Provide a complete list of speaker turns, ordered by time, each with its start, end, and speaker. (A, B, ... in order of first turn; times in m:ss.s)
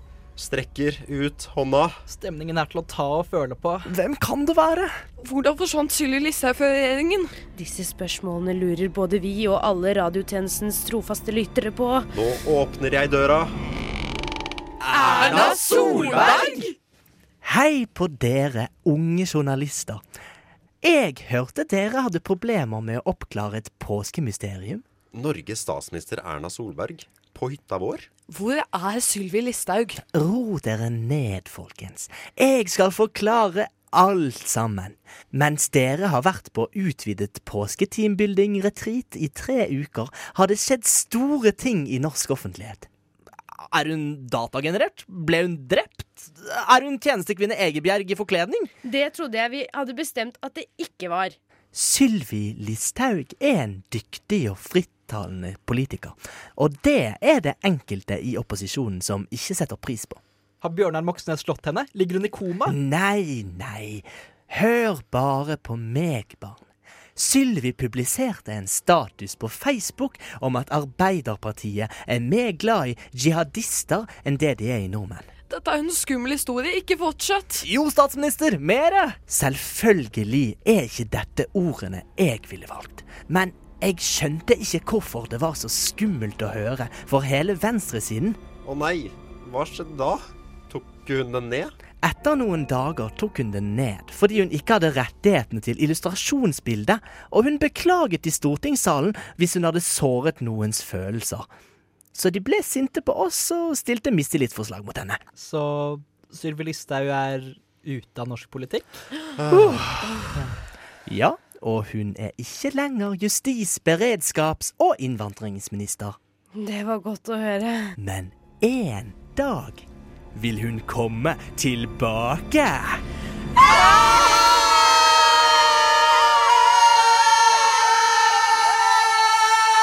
0:00.4-0:02.0 A
0:02.1-0:03.9 B
0:03.9-0:04.9 C
0:05.2-0:07.4 D
0:07.6-0:12.1 E
0:12.1-0:13.6 A
0:14.8-0:16.7 C
0:15.0-0:16.7 D
0:15.2-0:16.2 B
0:17.4-0:20.0 C
0:20.8-0:24.8 C
0:25.1-0:28.1 A
0:28.3-0:30.0 D
0:30.1-0:42.9 C
0:43.5-0:48.7 C
0:48.8-0:51.4 E
0:51.7-1:00.2 C
1:00.6-1:02.8 B
1:02.7-1:06.6 C
1:07.2-1:15.3 C
1:15.5-1:17.6 D
1:17.6-1:28.4 C
1:28.6-1:31.7 A
1:32.0-1:41.5 C
1:42.1-1:45.2 C
1:45.4-1:49.0 B
1:49.4-1:50.2 A
1:49.5-1:50.0 C
1:51.1-1:56.2 C
1:56.6-1:58.0 E
1:58.0-2:03.0 C
2:03.8-2:04.3 C